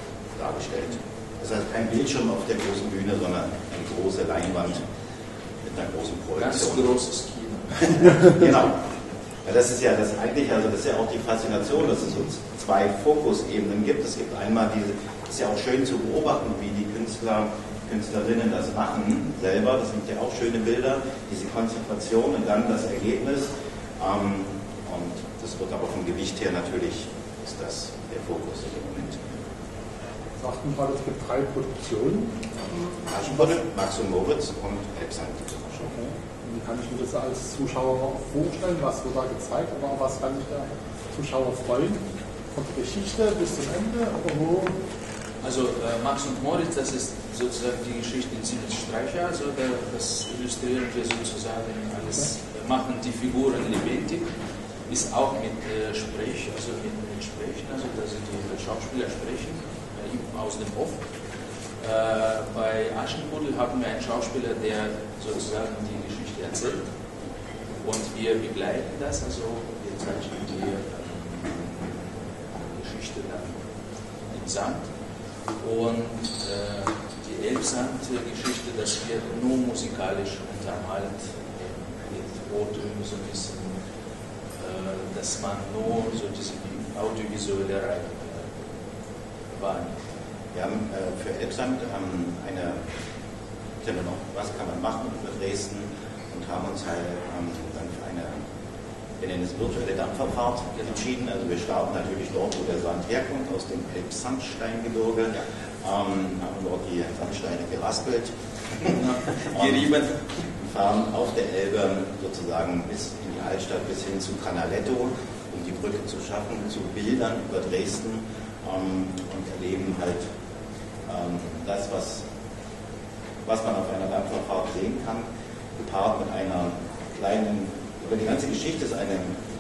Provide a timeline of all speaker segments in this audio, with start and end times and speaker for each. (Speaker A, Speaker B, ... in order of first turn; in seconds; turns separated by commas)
Speaker A: 0.4-4.8, Speaker A: 5.6-6.9, Speaker B: 6.4-8.3, Speaker A: 7.8-8.8, Speaker A: 9.4-29.3, Speaker C: 30.4-32.5, Speaker A: 33.1-36.0, Speaker C: 35.9-44.8, Speaker B: 45.4-54.2, Speaker B: 54.9-61.0, Speaker B: 61.8-66.9, Speaker B: 67.8-73.6, Speaker B: 74.3-74.9, Speaker B: 75.6-83.8, Speaker B: 84.6-88.6, Speaker B: 89.5-90.0, Speaker A: 90.5-92.8, Speaker A: 93.8-98.5, Speaker A: 99.2-109.0, Speaker B: 108.8-110.2, Speaker A: 109.5-110.0, Speaker A: 110.6-120.2, Speaker A: 121.1-122.2, Speaker A: 123.5-129.3